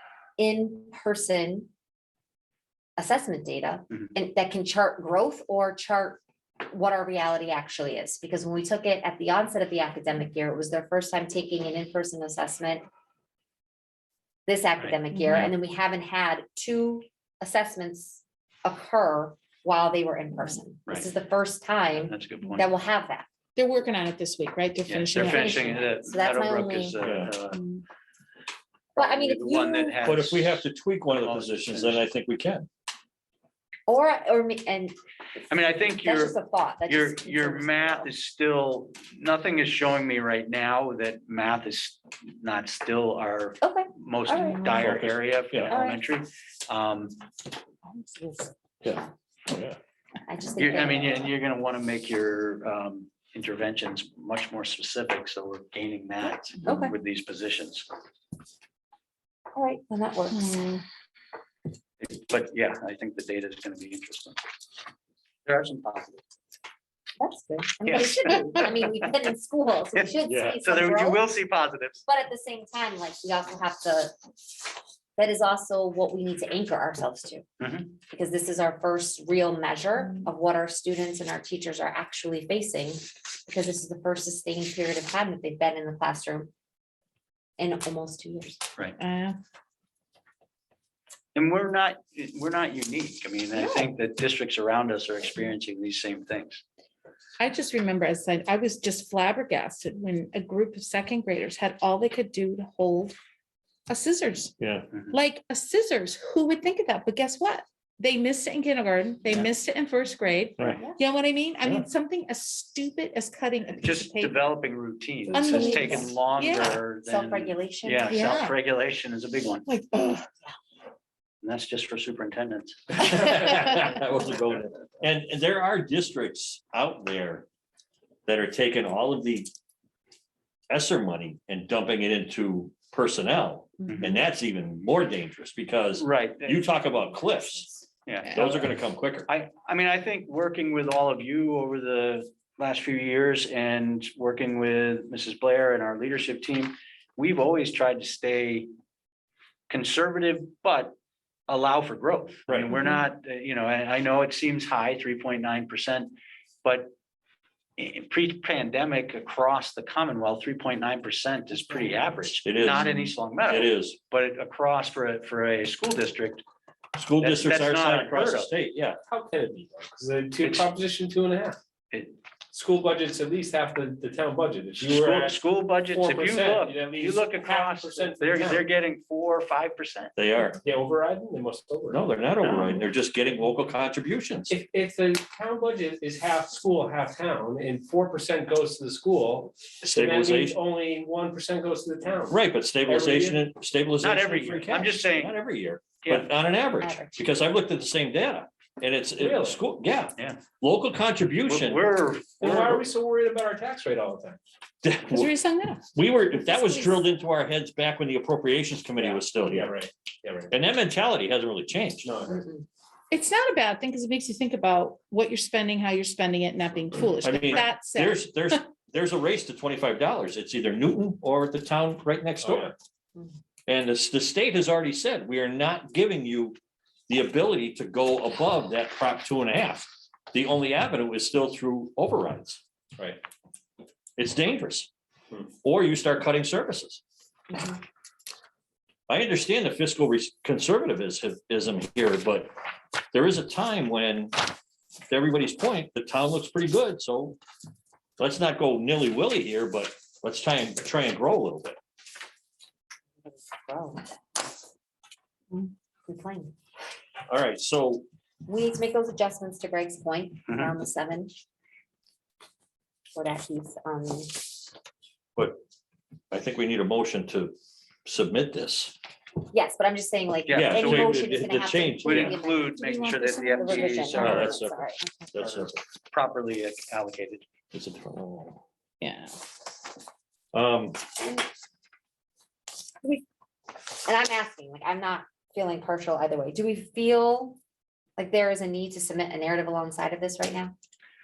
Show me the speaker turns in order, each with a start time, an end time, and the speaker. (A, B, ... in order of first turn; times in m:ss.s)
0:00.4-0:01.7 A
0:03.0-0:12.8 A
0:14.5-0:23.3 A
0:14.8-0:15.5 B
0:21.9-0:22.7 B
0:23.6-0:25.8 C
0:24.9-0:27.6 B
0:25.2-0:27.0 A
0:27.0-0:27.3 D
0:27.5-0:27.8 C
0:29.0-0:32.0 B
0:29.0-0:30.0 A
0:30.0-0:32.7 D
0:33.9-0:34.9 A
0:35.5-0:47.2 B
0:35.7-0:38.1 A
0:43.6-0:44.6 A
0:44.8-0:45.8 D
0:45.7-0:46.0 A
0:47.9-0:48.5 C
0:48.8-0:49.8 D
0:50.3-0:51.3 A
0:50.6-0:57.9 B
0:56.6-0:57.0 A
0:59.5-1:00.8 A
1:00.3-1:00.8 C
1:02.0-1:04.4 B
1:05.4-1:06.2 B
1:07.2-1:11.2 A
1:07.9-1:08.9 B
1:10.3-1:10.6 D
1:10.6-1:12.0 B
1:12.1-1:14.2 A
1:15.2-1:17.5 A
1:17.6-1:17.9 B
1:18.1-1:26.5 A
1:27.6-1:28.6 A
1:29.0-1:29.4 C
1:31.4-1:36.6 B
1:37.4-1:43.2 C
1:43.9-1:54.4 C
1:44.6-1:44.9 D
1:53.8-1:59.6 B
1:55.3-1:56.8 C
1:55.5-1:56.1 A
1:57.1-1:58.2 A
1:58.1-1:58.6 C
1:59.7-2:00.3 C
2:01.4-2:03.0 B
2:03.0-2:07.5 D
2:08.3-2:09.5 D
2:10.7-2:17.7 D
2:13.9-2:14.2 B
2:16.0-2:16.7 B
2:18.1-2:18.6 B
2:18.3-2:19.3 D
2:19.3-2:28.7 B
2:29.7-2:31.0 B
2:31.5-2:36.9 B
2:37.8-2:46.4 B
2:42.4-2:42.9 D
2:43.5-2:44.0 D
2:47.0-2:49.0 D
2:47.2-2:48.5 B
2:49.1-2:51.6 E
2:51.9-2:52.2 B
2:52.5-2:55.4 E
2:54.8-3:00.1 B
2:55.9-2:58.7 E
3:00.2-3:00.6 D
3:00.6-3:02.0 E
3:01.9-3:04.5 D
3:02.4-3:02.8 B
3:04.5-3:13.5 E
3:09.8-3:10.6 D
3:12.3-3:21.9 D
3:14.0-3:15.4 B
3:16.0-3:16.3 B
3:16.8-3:17.2 A
3:19.2-3:19.6 E
3:21.5-3:22.8 B
3:22.4-3:24.4 E
3:22.4-3:22.8 D
3:24.8-3:25.3 D
3:25.1-3:27.0 C
3:26.0-3:29.7 D
3:29.0-3:30.5 E
3:30.5-3:32.1 D
3:32.0-3:32.4 E
3:32.3-3:32.6 A
3:33.1-3:38.3 C
3:37.2-3:42.7 D
3:42.4-3:42.7 E
3:43.7-3:46.6 D
3:47.1-3:52.6 D
3:54.2-3:54.9 D
3:55.6-3:57.0 D
3:59.1-4:02.5 D
4:03.1-4:04.4 D
4:05.1-4:07.4 D
4:08.2-4:11.8 D
4:13.2-4:14.5 A
4:16.1-4:16.5 A
4:17.3-4:18.1 D
4:18.4-4:21.3 A
4:23.2-4:24.5 A
4:26.3-4:27.6 D
4:28.1-4:29.0 D
4:29.5-4:32.8 A
4:30.5-4:31.3 B
4:30.5-4:32.4 D
4:32.0-4:34.6 B
4:32.7-4:34.4 C
4:33.6-4:35.4 A
4:34.2-4:35.8 D
4:36.1-4:37.4 B
4:37.7-4:38.6 D
4:39.0-4:39.4 C
4:40.5-4:41.2 D
4:44.0-4:47.6 A
4:48.2-4:50.7 A